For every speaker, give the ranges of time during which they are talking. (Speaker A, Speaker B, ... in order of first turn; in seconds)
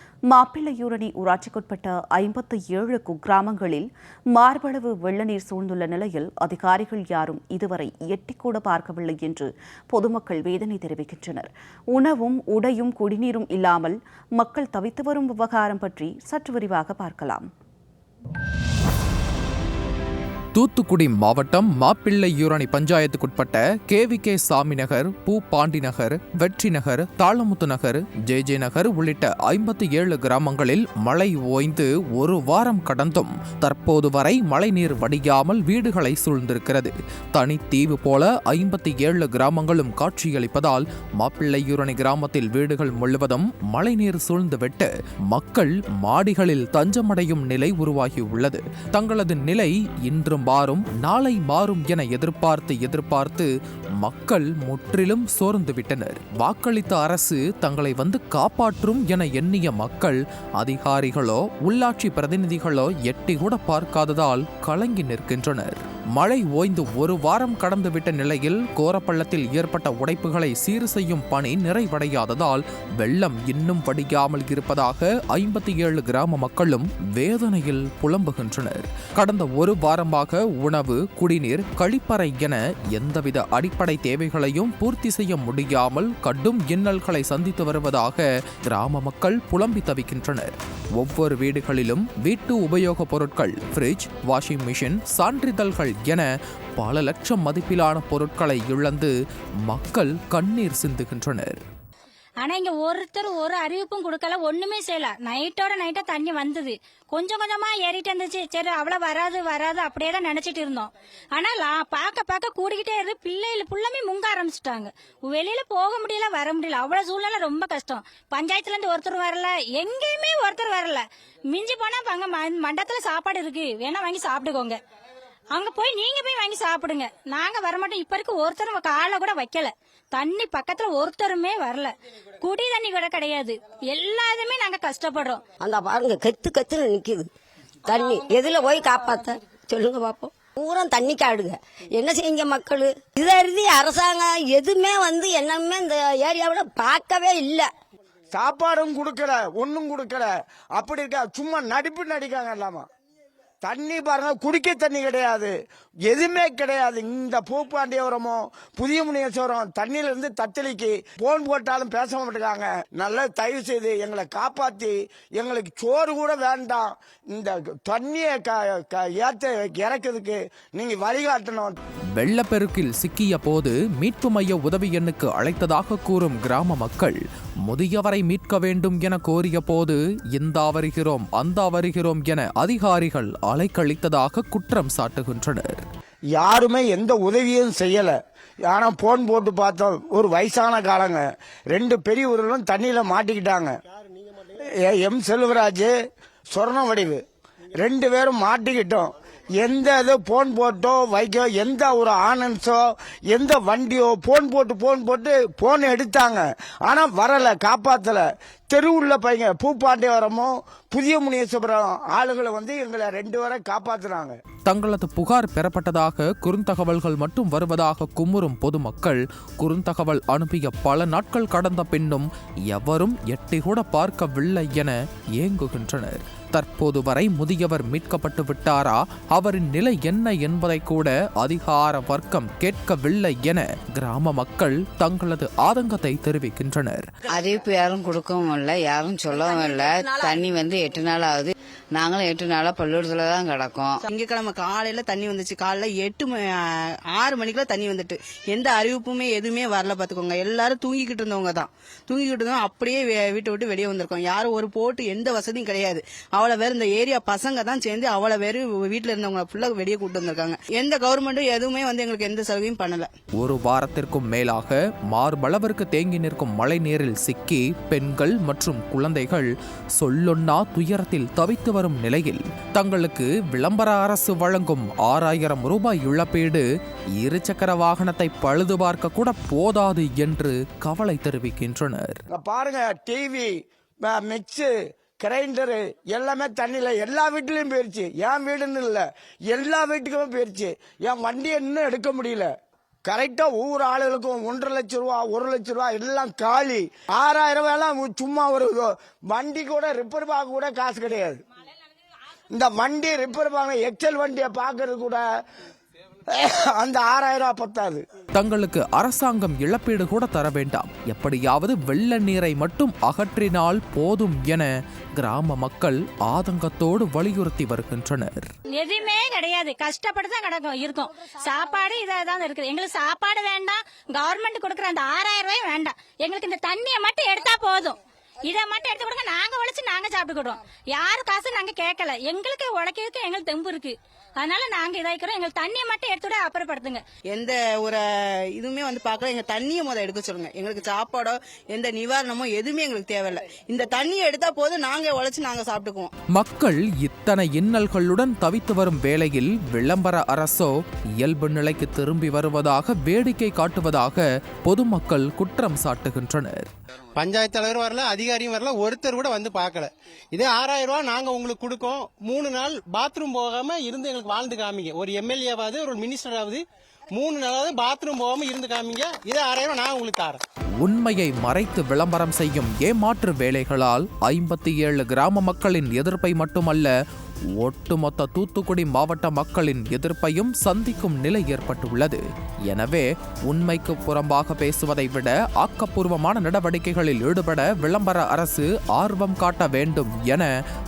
Speaker A: 0.3-17.5
Speaker B: 20.6-99.1, 99.6-101.6, 172.2-185.8, 214.7-237.1, 263.4-276.6, 277.2-282.2, 308.3-318.5, 346.3-356.7, 370.8-376.9, 377.6-390.5
Speaker C: 102.4-124.8, 125.5-135.4, 318.8-337.0
Speaker D: 135.6-137.3, 137.8-147.7
Speaker E: 148.3-152.8, 153.6-155.5, 156.1-171.8, 186.3-188.2, 188.7-193.8, 194.8-195.9, 196.5-197.2, 197.8-214.3, 282.3-283.6, 284.1-292.5, 293.1-301.4, 302.5-305.2, 306.3-308.0
Speaker F: 237.3-244.0
Speaker G: 244.1-246.3, 247.2-263.1, 337.3-338.0, 338.6-346.1
Speaker H: 357.1-366.6, 367.1-370.4